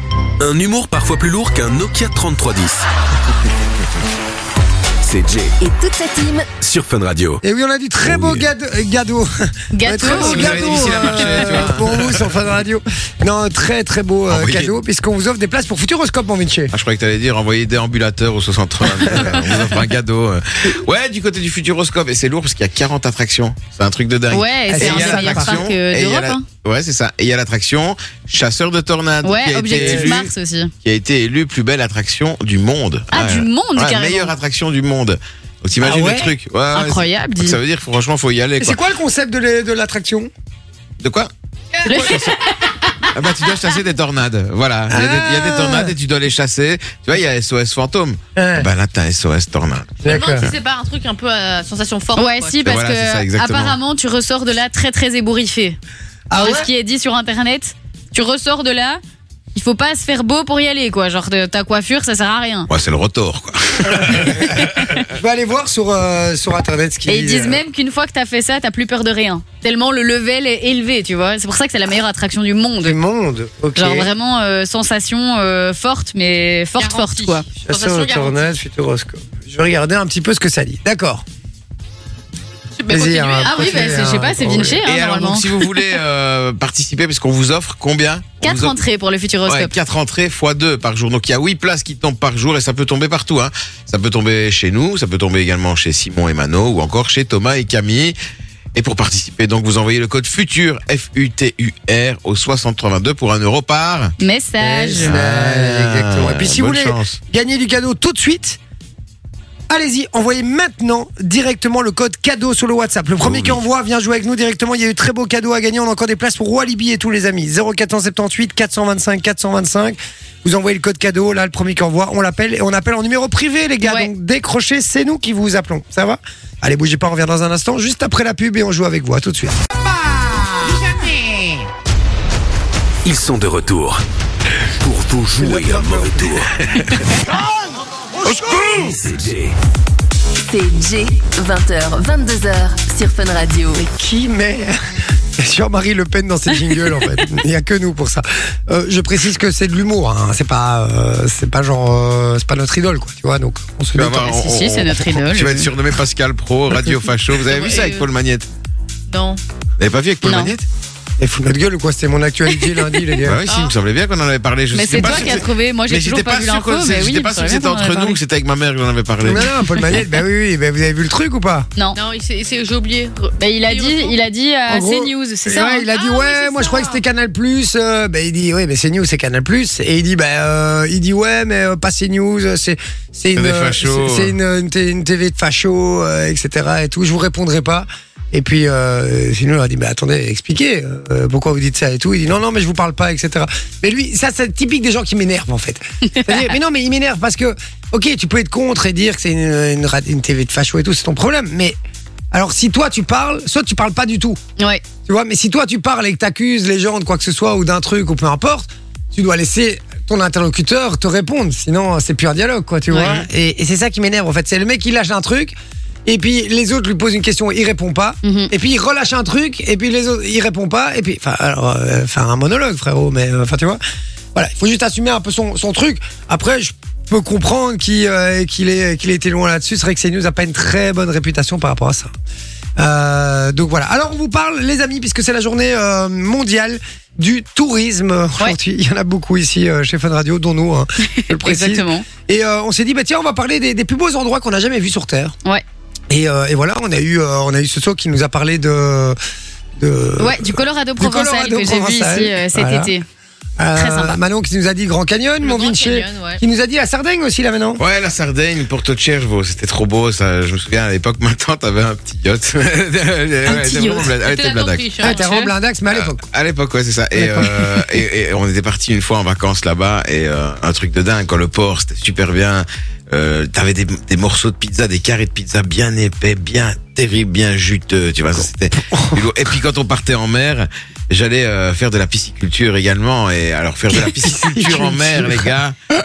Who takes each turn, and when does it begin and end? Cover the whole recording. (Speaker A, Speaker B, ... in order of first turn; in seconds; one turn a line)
Speaker A: 0.4-2.8
Speaker A: 5.0-5.5
Speaker B: 5.6-6.5
Speaker A: 6.6-7.4
Speaker C: 7.4-16.7
Speaker A: 8.1-8.4
Speaker D: 9.7-11.7
Speaker E: 10.0-12.3
Speaker E: 14.3-14.7
Speaker E: 16.7-30.3
Speaker C: 19.0-19.5
Speaker D: 24.3-26.4
Speaker C: 24.7-25.7
Speaker D: 29.2-30.7
Speaker C: 29.7-30.1
Speaker E: 30.8-38.8
Speaker D: 33.1-34.3
Speaker C: 35.8-36.4
Speaker D: 36.7-37.6
Speaker C: 38.6-40.3
Speaker E: 41.0-41.3
Speaker F: 41.7-42.3
Speaker D: 41.8-42.5
Speaker E: 41.9-42.4
Speaker E: 43.1-50.5
Speaker C: 44.9-45.9
Speaker C: 48.4-48.7
Speaker C: 50.0-50.5
Speaker F: 50.0-52.6
Speaker D: 52.1-55.8
Speaker E: 52.6-53.8
Speaker C: 56.3-56.7
Speaker D: 56.4-59.0
Speaker D: 59.5-62.7
Speaker E: 62.7-64.9
Speaker C: 63.9-67.6
Speaker D: 67.1-73.0
Speaker C: 72.8-74.1
Speaker D: 73.8-77.4
Speaker F: 76.8-78.5
Speaker C: 77.6-81.2
Speaker F: 82.8-84.2
Speaker C: 82.9-84.8
Speaker D: 83.4-85.5
Speaker E: 84.8-88.8
Speaker D: 88.4-89.7
Speaker E: 89.5-98.1
Speaker E: 98.7-104.1
Speaker D: 104.2-105.1
Speaker C: 104.6-108.6
Speaker E: 105.0-107.2
Speaker C: 109.7-129.6
Speaker E: 113.2-113.6
Speaker D: 123.8-124.1
Speaker C: 130.2-131.4
Speaker A: 133.0-134.0
Speaker A: 134.8-137.2
Speaker C: 135.4-136.3
Speaker C: 138.2-138.7
Speaker A: 138.2-139.5
Speaker B: 140.4-143.8
Speaker C: 143.7-144.8
Speaker C: 145.3-154.3
Speaker E: 153.9-158.5
Speaker D: 154.1-155.7
Speaker F: 157.4-158.1
Speaker F: 159.1-159.4
Speaker E: 159.8-160.7
Speaker D: 160.2-160.5
Speaker C: 161.2-163.4
Speaker E: 163.2-169.5
Speaker F: 163.5-163.8
Speaker D: 164.7-168.2
Speaker C: 169.2-171.7
Speaker D: 169.3-169.8
Speaker F: 171.9-174.2
Speaker D: 173.4-175.9
Speaker C: 174.7-201.8
Speaker F: 175.9-177.0
Speaker E: 183.3-184.3
Speaker D: 196.0-196.6
Speaker C: 202.3-204.4
Speaker C: 205.1-215.5
Speaker D: 212.9-213.2
Speaker E: 213.0-213.2
Speaker C: 216.1-223.8
Speaker D: 218.2-218.5
Speaker C: 224.3-232.1
Speaker C: 232.8-245.3
Speaker D: 241.0-242.1
Speaker C: 246.1-249.2
Speaker C: 249.8-252.9
Speaker D: 250.2-253.0
Speaker C: 253.6-257.8
Speaker D: 253.7-254.2
Speaker F: 255.4-256.4
Speaker E: 257.8-265.0
Speaker D: 263.4-264.1
Speaker F: 264.2-265.5
Speaker C: 265.0-266.2
Speaker E: 265.9-285.8
Speaker C: 267.1-268.0
Speaker C: 278.4-279.3
Speaker C: 283.9-285.5